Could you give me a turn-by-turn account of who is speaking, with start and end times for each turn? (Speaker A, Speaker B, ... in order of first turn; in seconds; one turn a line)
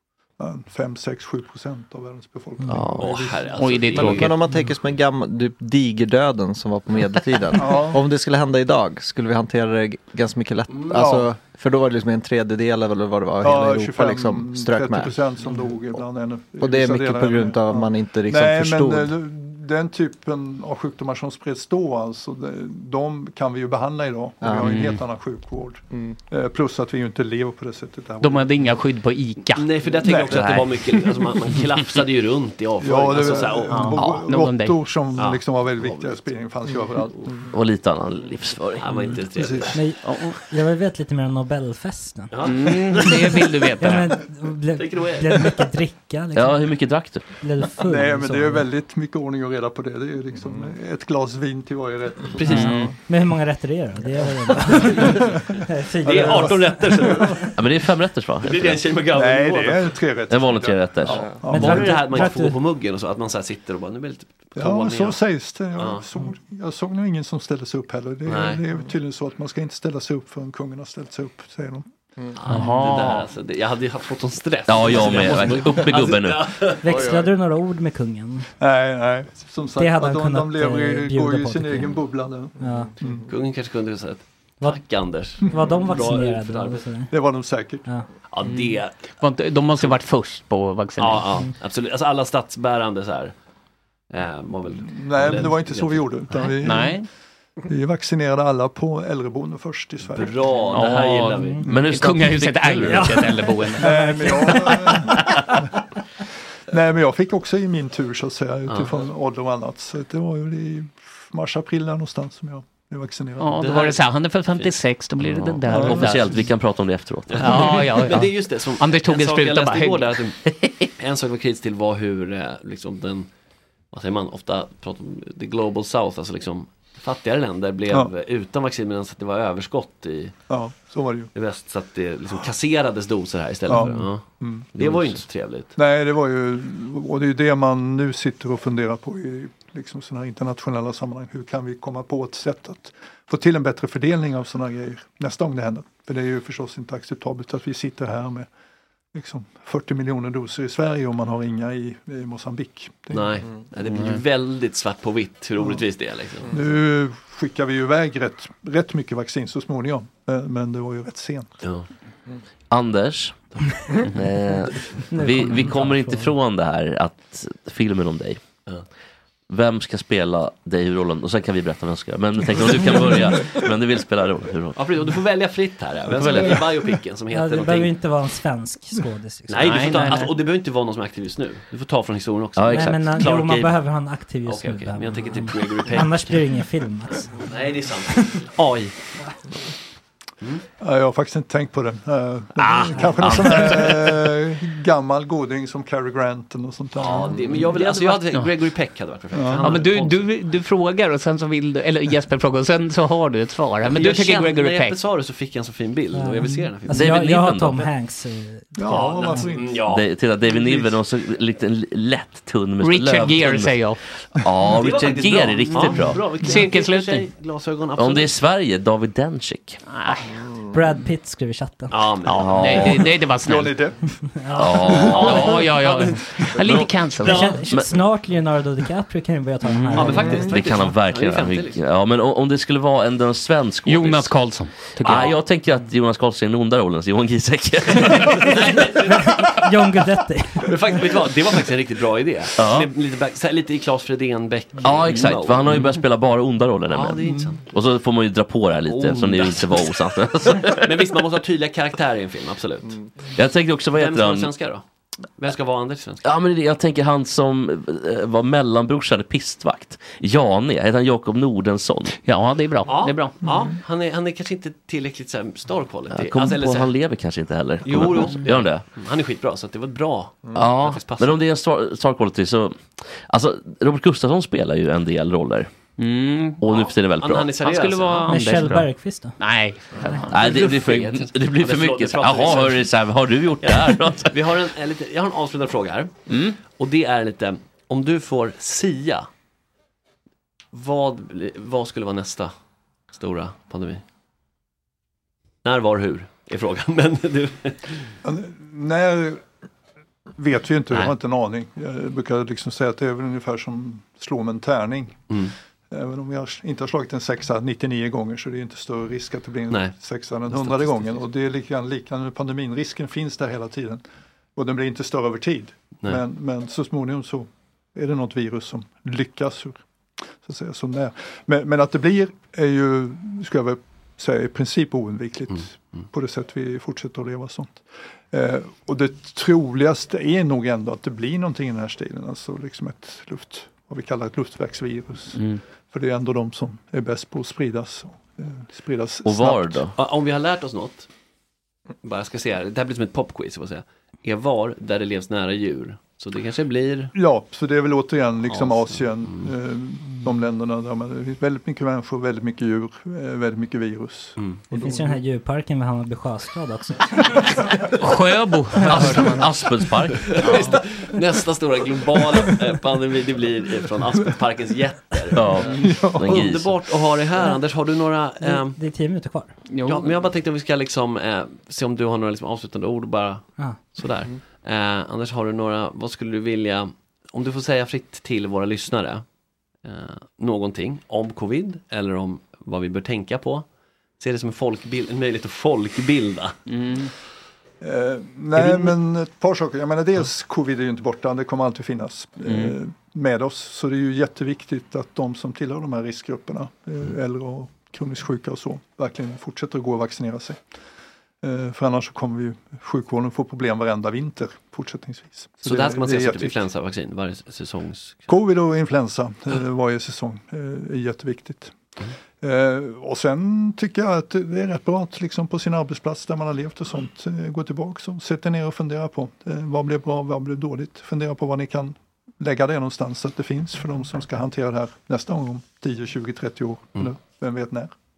Speaker A: 0.4-4.0
Speaker B: 2.7-3.1
Speaker C: 2.9-4.3
Speaker D: 3.6-4.4
Speaker E: 4.0-15.3
Speaker A: 7.5-8.0
Speaker C: 10.7-11.0
Speaker A: 10.9-11.3
Speaker A: 13.4-28.5
Speaker E: 16.6-19.1
Speaker E: 24.4-24.8
Speaker D: 24.7-25.0
Speaker D: 28.2-30.6
Speaker C: 29.5-33.9
Speaker A: 30.0-30.7
Speaker A: 32.8-37.4
Speaker D: 33.7-34.9
Speaker B: 34.0-34.2
Speaker C: 35.1-36.3
Speaker B: 37.5-39.2
Speaker C: 38.8-39.8
Speaker A: 39.3-39.8
Speaker F: 39.7-42.3
Speaker D: 40.0-40.3
Speaker C: 42.3-43.5
Speaker D: 42.4-44.1
Speaker F: 43.8-48.7
Speaker C: 44.7-45.6
Speaker B: 46.3-47.2
Speaker A: 47.8-52.9
Speaker C: 52.3-52.9
Speaker D: 52.4-52.9
Speaker F: 52.5-57.2
Speaker C: 54.6-55.3
Speaker A: 55.1-55.4
Speaker C: 56.0-57.6
Speaker A: 56.0-57.4
Speaker B: 57.5-58.9
Speaker C: 58.4-60.2
Speaker A: 59.1-62.3
Speaker B: 60.3-61.3
Speaker C: 61.0-65.2
Speaker F: 61.5-62.6
Speaker A: 64.5-71.8
Speaker C: 65.8-66.0
Speaker C: 68.2-68.6
Speaker C: 72.3-77.2
Speaker D: 72.5-73.3
Speaker B: 74.7-76.5
Speaker F: 76.8-78.5
Speaker A: 78.6-83.2
Speaker F: 79.8-82.0
Speaker F: 82.6-82.9
Speaker C: 83.2-87.0
Speaker F: 84.6-88.0
Speaker A: 87.1-87.9
Speaker C: 88.3-89.0
Speaker D: 88.4-91.3
Speaker C: 91.0-93.3
Speaker C: 94.1-96.5
Speaker A: 94.8-97.0
Speaker D: 96.6-97.1
Speaker A: 97.7-100.4
Speaker C: 100.1-101.9
Speaker D: 100.7-104.7
Speaker F: 101.3-101.6
Speaker B: 101.7-103.2
Speaker F: 102.8-105.2
Speaker A: 103.8-105.3
Speaker A: 106.7-113.6
Speaker C: 108.7-109.0
Speaker D: 113.4-116.4
Speaker C: 113.6-114.7
Speaker B: 115.2-117.8
Speaker A: 115.7-116.1
Speaker C: 117.3-120.4
Speaker D: 117.4-120.1
Speaker C: 121.0-123.3
Speaker C: 123.9-130.3
Speaker A: 130.5-131.3
Speaker C: 131.3-135.7
Speaker A: 133.7-134.9
Speaker A: 135.7-148.5
Speaker A: 149.1-153.4
Speaker C: 153.1-156.7
Speaker A: 156.5-161.5
Speaker B: 162.7-168.4
Speaker F: 165.1-166.3
Speaker B: 169.5-174.8
Speaker C: 174.8-177.9
Speaker B: 176.1-176.6
Speaker F: 177.3-180.2
Speaker C: 179.5-183.7
Speaker D: 179.6-180.3
Speaker B: 182.6-183.7
Speaker F: 182.7-187.5
Speaker C: 184.4-186.6
Speaker C: 187.2-189.0
Speaker A: 190.8-197.6
Speaker B: 192.7-194.1
Speaker C: 196.9-200.3
Speaker D: 197.9-198.5
Speaker A: 199.3-199.8
Speaker D: 199.6-205.0
Speaker C: 203.8-207.1
Speaker F: 206.1-209.4
Speaker B: 206.9-207.9
Speaker A: 208.7-209.9
Speaker C: 208.8-210.8
Speaker B: 209.8-216.2
Speaker D: 212.8-214.0
Speaker C: 214.6-218.4
Speaker D: 215.7-217.3
Speaker B: 218.0-219.8
Speaker D: 219.9-220.3
Speaker F: 220.7-222.0
Speaker C: 221.9-223.1
Speaker D: 222.2-223.8
Speaker B: 222.4-223.0
Speaker A: 223.4-224.2
Speaker F: 224.4-225.1
Speaker B: 224.6-225.7
Speaker C: 224.6-227.6
Speaker D: 224.9-227.6
Speaker F: 227.2-230.4
Speaker D: 229.6-230.4
Speaker C: 229.9-231.8
Speaker B: 230.4-238.6
Speaker D: 233.8-235.3
Speaker C: 238.2-239.3
Speaker F: 239.0-240.9
Speaker C: 240.6-245.9
Speaker B: 242.6-242.9
Speaker B: 244.8-250.9
Speaker C: 246.9-247.7
Speaker C: 248.8-253.0
Speaker B: 253.3-254.5
Speaker C: 253.9-254.8
Speaker C: 255.4-256.2
Speaker B: 256.2-262.2
Speaker D: 262.2-263.4
Speaker C: 262.9-266.9
Speaker B: 266.1-268.9
Speaker C: 267.8-271.4
Speaker B: 270.5-275.7
Speaker D: 276.0-276.6
Speaker B: 276.6-277.5
Speaker C: 276.6-278.4
Speaker D: 277.6-280.7
Speaker F: 278.3-279.4
Speaker B: 280.3-284.3
Speaker C: 280.3-283.0
Speaker C: 283.6-289.3
Speaker C: 290.7-292.5
Speaker C: 293.1-294.0
Speaker C: 295.6-298.1
Speaker A: 298.2-299.4
Speaker A: 300.4-305.2
Speaker A: 305.9-314.0
Speaker C: 309.7-311.2
Speaker A: 314.6-319.8
Speaker A: 320.4-339.8
Speaker D: 335.3-335.6
Speaker B: 339.2-339.9
Speaker C: 339.9-341.1
Speaker C: 342.0-347.1
Speaker A: 347.1-355.2
Speaker C: 348.5-349.5
Speaker F: 354.7-357.4
Speaker D: 357.9-359.5
Speaker F: 358.8-359.2
Speaker B: 358.9-360.3
Speaker C: 360.1-368.8
Speaker B: 365.3-366.7
Speaker A: 365.7-366.4
Speaker F: 368.4-369.5
Speaker D: 369.7-370.2
Speaker C: 369.8-379.2
Speaker C: 379.8-383.6
Speaker C: 384.2-386.6
Speaker D: 386.7-387.1
Speaker A: 387.8-400.6
Speaker C: 388.5-388.9
Speaker D: 392.4-392.8
Speaker A: 401.4-406.6
Speaker C: 405.6-408.3
Speaker A: 408.3-411.8
Speaker A: 412.4-427.9